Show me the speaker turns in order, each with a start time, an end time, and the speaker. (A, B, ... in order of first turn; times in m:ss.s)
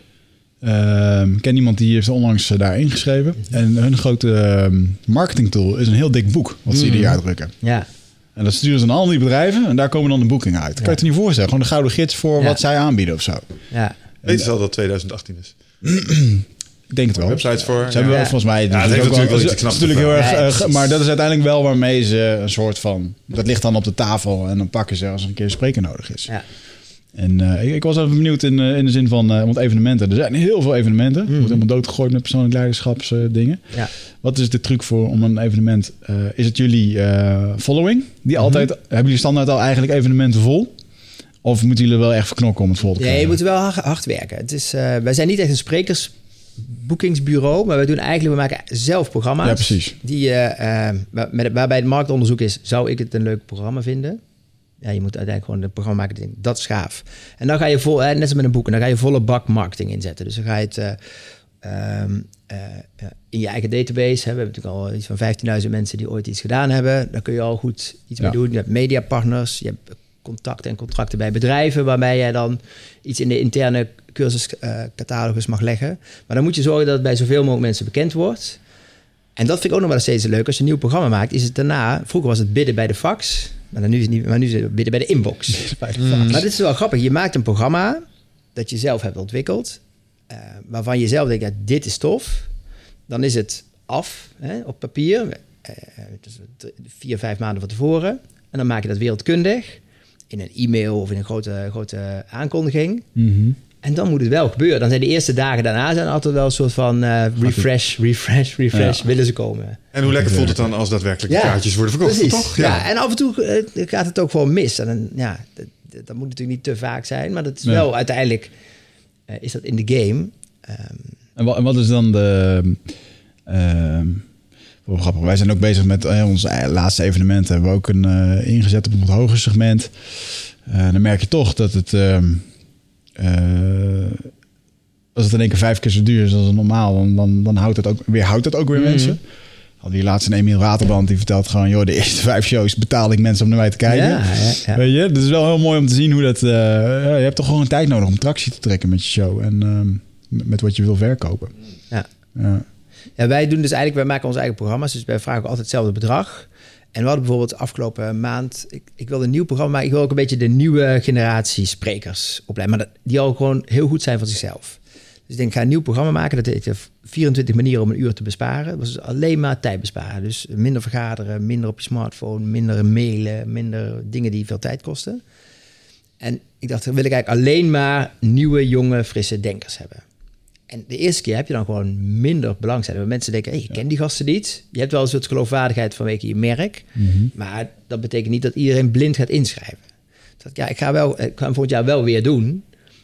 0:00.6-0:07.5 A
0:06.7-0:07.9 B
0:08.3-0:13.4 A
0:14.2-0:15.5 C
0:15.8-0:26.4 A
0:17.2-0:20.4 C
0:18.1-0:18.4 B
0:20.2-0:20.7 B
0:27.1-0:33.7 A
0:31.3-0:31.6 B
0:34.2-0:40.8 A
0:38.4-0:38.7 B
0:41.4-0:43.4 A
0:43.0-0:54.2 B
0:49.4-0:49.9 A
0:54.8-1:01.0 B
1:01.6-1:18.6 B
1:19.4-1:28.0 B
1:25.6-1:26.4 A
1:26.0-1:26.4 C
1:28.5-1:32.5 B
1:33.1-1:43.1 B
1:43.2-1:43.6 A
1:43.8-1:49.8 B
1:48.7-1:49.0 A
1:49.9-1:52.8 C
1:50.1-1:50.6 A
1:51.3-1:58.5 B
1:59.3-2:01.2 B
2:01.4-2:02.8 A
2:03.4-2:04.2 A
2:04.8-2:12.5 A
2:13.2-2:14.3 A
2:15.1-2:19.2 A
2:18.7-2:19.2 B
2:19.8-2:31.5 A
2:23.9-2:24.8 B
2:32.3-2:32.6 A
2:33.2-2:55.2 B
2:56.2-3:00.0 B
3:00.7-3:09.8 B
3:07.0-3:07.3 A
3:10.4-3:12.6 B